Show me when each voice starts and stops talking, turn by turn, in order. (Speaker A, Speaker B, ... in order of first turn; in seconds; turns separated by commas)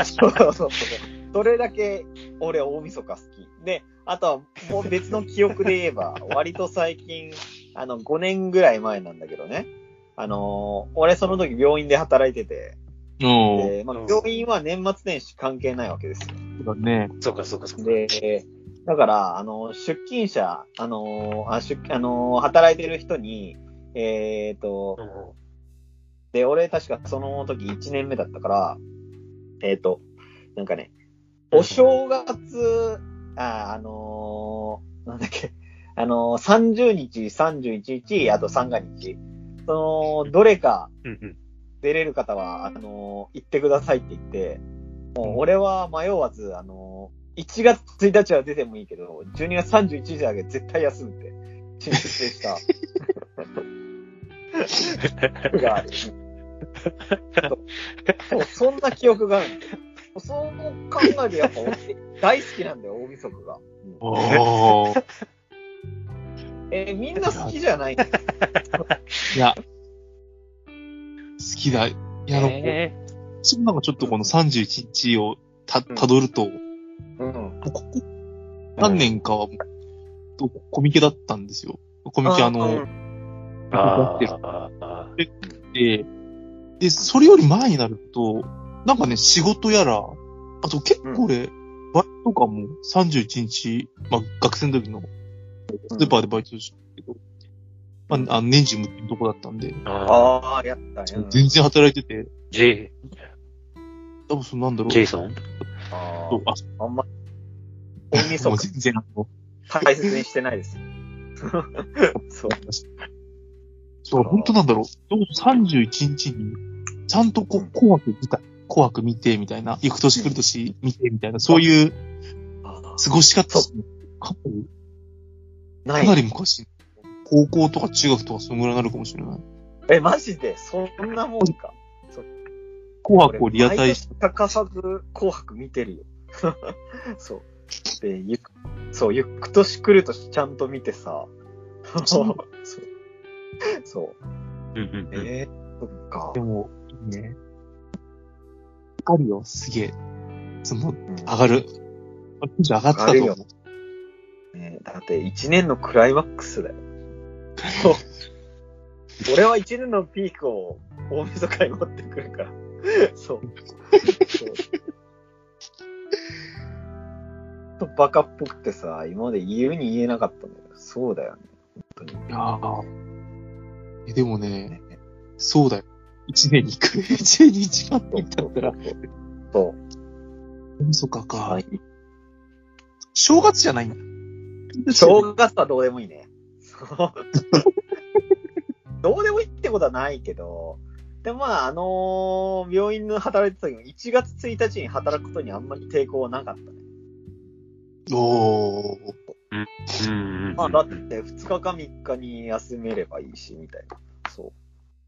Speaker A: 0.2-12.8, Speaker B: 13.2-13.7, Speaker A: 13.5-16.3, Speaker C: 13.9-14.2, Speaker B: 16.6-17.1, Speaker C: 17.2-18.0, Speaker A: 17.8-25.0, Speaker C: 25.0-25.3, Speaker A: 26.3-28.8, Speaker A: 29.6-30.0, Speaker A: 30.5-30.9, Speaker A: 31.5-40.9, Speaker C: 31.5-32.0, Speaker C: 41.0-41.4, Speaker A: 41.8-44.6, Speaker A: 45.1-52.6, Speaker A: 54.5-54.8, Speaker C: 55.0-55.5, Speaker A: 55.5-56.1, Speaker C: 57.1-57.5, Speaker A: 58.3-64.0, Speaker B: 64.0-65.0, Speaker C: 64.2-65.0, Speaker A: 66.7-68.1, Speaker B: 67.2-67.5, Speaker C: 68.0-69.3, Speaker B: 71.4-72.8, Speaker C: 72.3-73.0, Speaker B: 73.4-76.6, Speaker A: 74.0-74.3, Speaker A: 77.2-77.6, Speaker B: 77.6-78.0, Speaker B: 78.8-79.5, Speaker C: 78.8-79.1, Speaker B: 80.4-82.8, Speaker A: 82.2-82.9, Speaker B: 83.7-84.3, Speaker C: 83.7-85.1, Speaker B: 85.2-86.0, Speaker B: 86.8-95.1, Speaker B: 95.7-97.2, Speaker A: 95.9-96.2, Speaker B: 98.1-99.8, Speaker C: 99.8-100.3, Speaker A: 100.1-101.6, Speaker B: 101.1-102.3, Speaker C: 102.5-103.0, Speaker B: 104.3-105.0, Speaker C: 104.9-105.4, Speaker A: 105.9-107.0, Speaker B: 106.3-106.6, Speaker A: 108.1-108.7, Speaker B: 108.1-109.3, Speaker A: 109.7-110.8, Speaker B: 109.8-110.2, Speaker A: 111.4-112.6, Speaker B: 112.1-112.8, Speaker B: 114.0-116.5, Speaker A: 114.1-114.5, Speaker B: 117.1-122.0, Speaker A: 122.6-123.7, Speaker B: 123.0-124.7, Speaker A: 125.8-126.2, Speaker B: 126.0-126.7, Speaker B: 127.2-129.4, Speaker A: 129.9-132.3, Speaker B: 133.0-134.1, Speaker A: 133.2-137.5, Speaker A: 138.0-141.3, Speaker A: 141.9-142.8, Speaker B: 142.0-142.4, Speaker A: 143.8-144.2, Speaker C: 144.8-145.3, Speaker A: 145.1-146.4, Speaker B: 146.3-147.3, Speaker B: 149.0-149.9, Speaker B: 150.6-151.7, Speaker B: 152.4-153.4, Speaker A: 152.9-153.4, Speaker A: 154.5-156.8, Speaker B: 157.6-158.0, Speaker A: 157.8-158.0, Speaker A: 159.2-162.6, Speaker A: 163.1-163.4, Speaker B: 163.9-164.6, Speaker A: 164.3-164.6, Speaker A: 167.8-172.3, Speaker B: 172.3-172.8, Speaker B: 174.1-174.7, Speaker A: 174.7-174.9, Speaker B: 175.4-178.8, Speaker A: 178.1-178.9, Speaker A: 179.5-179.8, Speaker B: 180.8-181.6, Speaker A: 181.4-181.8, Speaker B: 183.1-184.0, Speaker B: 184.8-185.3, Speaker A: 184.9-187.2, Speaker B: 187.4-187.7, Speaker A: 189.0-196.7, Speaker B: 198.1-199.1, Speaker C: 199.5-201.0, Speaker A: 200.6-204.5